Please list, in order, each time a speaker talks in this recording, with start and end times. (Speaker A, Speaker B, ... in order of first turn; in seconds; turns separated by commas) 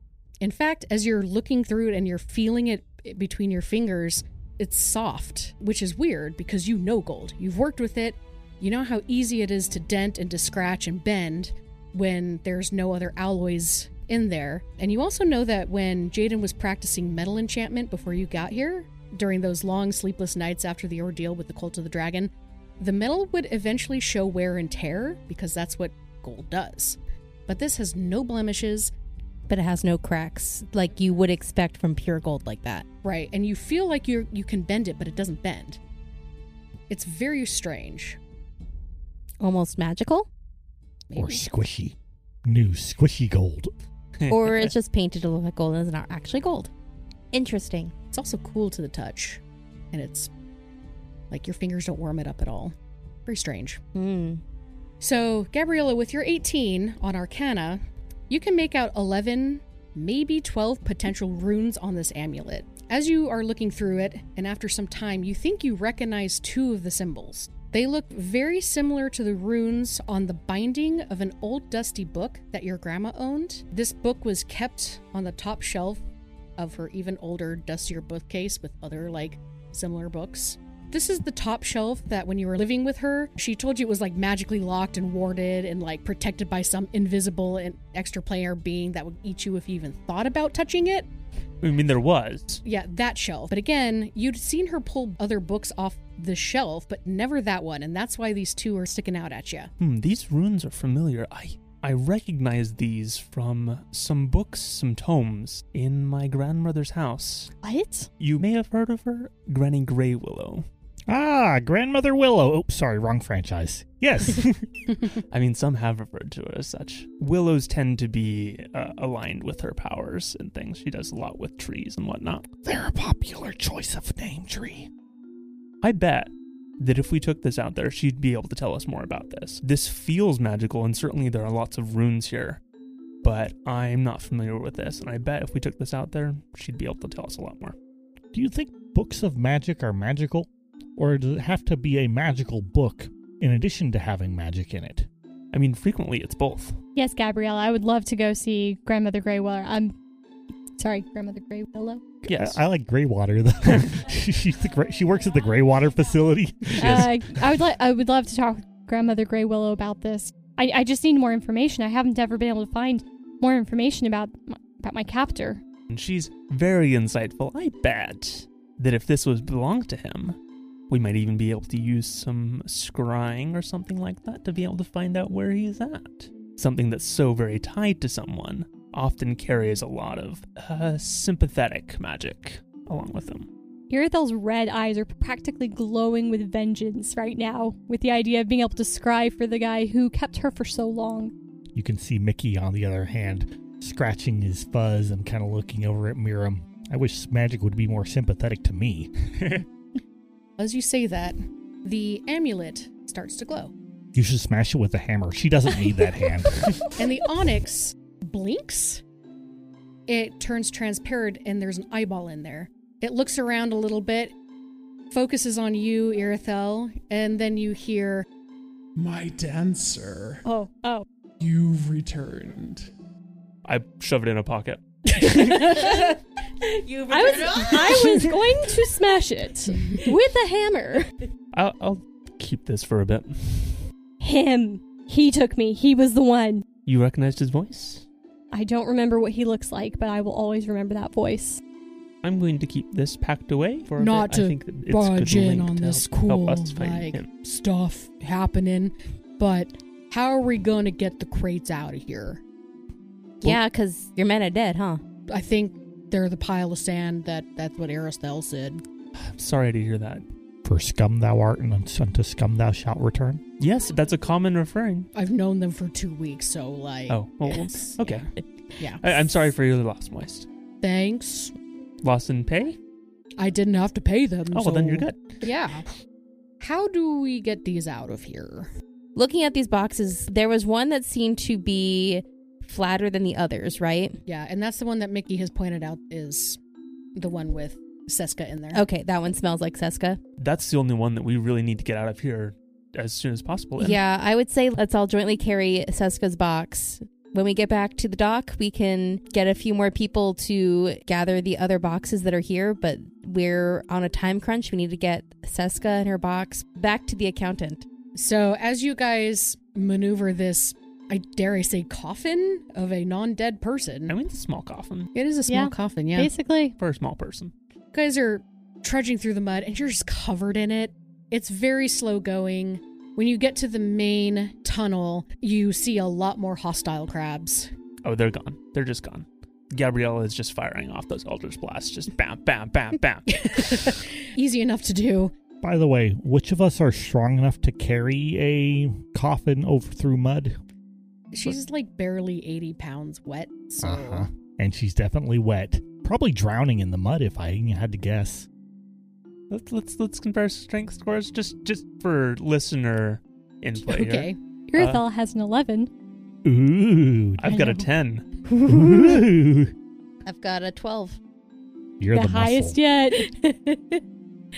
Speaker A: 0.4-28.9, Speaker B: 29.5-32.9, Speaker A: 33.0-35.8, Speaker A: 36.9-38.2, Speaker B: 39.4-40.3, Speaker A: 41.1-41.4, Speaker C: 41.1-43.7, Speaker D: 44.2-44.7, Speaker B: 44.3-46.7, Speaker B: 47.3-47.9, Speaker A: 48.1-49.4, Speaker A: 49.9-50.3, Speaker A: 51.3-52.7, Speaker A: 53.2-53.8, Speaker B: 53.9-54.4, Speaker A: 55.0-76.0, Speaker A: 76.6-91.1, Speaker D: 91.6-92.6, Speaker A: 92.6-99.7, Speaker D: 99.8-107.5, Speaker E: 107.6-108.1, Speaker D: 108.2-110.7, Speaker C: 111.1-114.7, Speaker D: 115.2-122.5, Speaker C: 122.6-124.9, Speaker D: 125.8-132.6, Speaker D: 133.2-137.7, Speaker C: 138.3-145.1, Speaker D: 145.5-146.8, Speaker E: 146.9-149.9, Speaker E: 150.8-152.0, Speaker D: 152.2-152.6, Speaker C: 152.3-157.2, Speaker E: 156.8-165.6, Speaker D: 156.8-157.1, Speaker D: 165.9-170.4, Speaker D: 170.9-183.5, Speaker E: 183.9-191.3, Speaker C: 191.7-199.6, Speaker A: 200.6-203.7, Speaker C: 204.1-206.8, Speaker A: 206.9-209.0, Speaker A: 210.1-214.3, Speaker A: 215.1-218.2, Speaker F: 218.9-220.5, Speaker E: 220.4-221.0, Speaker F: 221.4-222.9, Speaker D: 223.6-225.8, Speaker B: 226.8-228.1, Speaker E: 227.1-231.1, Speaker D: 231.5-233.8, Speaker E: 234.2-236.7, Speaker D: 236.8-238.1, Speaker E: 238.5-241.6, Speaker D: 242.2-247.3, Speaker A: 244.0-252.4, Speaker B: 253.4-255.0, Speaker A: 255.3-258.8, Speaker D: 259.1-260.2, Speaker C: 260.6-263.4, Speaker D: 263.6-265.1, Speaker A: 265.1-268.3, Speaker D: 267.1-268.4, Speaker A: 268.8-269.2, Speaker D: 269.0-270.5, Speaker A: 270.8-271.5, Speaker D: 272.0-272.8, Speaker A: 273.4-275.9, Speaker D: 274.5-275.4, Speaker A: 276.6-278.7, Speaker B: 279.1-284.2, Speaker A: 284.2-286.6, Speaker A: 287.1-288.8, Speaker B: 288.7-290.2, Speaker D: 290.4-294.0, Speaker B: 293.8-307.8, Speaker A: 308.1-314.1, Speaker D: 314.1-315.1, Speaker A: 315.1-316.3, Speaker E: 315.5-316.8, Speaker D: 316.8-317.5, Speaker A: 317.9-327.7, Speaker D: 328.0-334.0, Speaker A: 333.4-335.3, Speaker C: 335.6-340.6, Speaker A: 341.3-344.3, Speaker C: 343.8-348.5, Speaker D: 349.5-355.0, Speaker A: 353.8-354.4, Speaker E: 354.7-355.9, Speaker C: 356.4-357.6, Speaker D: 357.4-358.3, Speaker E: 357.5-357.8, Speaker E: 358.5-359.2, Speaker C: 358.6-359.7, Speaker B: 360.2-361.2, Speaker C: 362.0-362.8, Speaker E: 362.1-364.0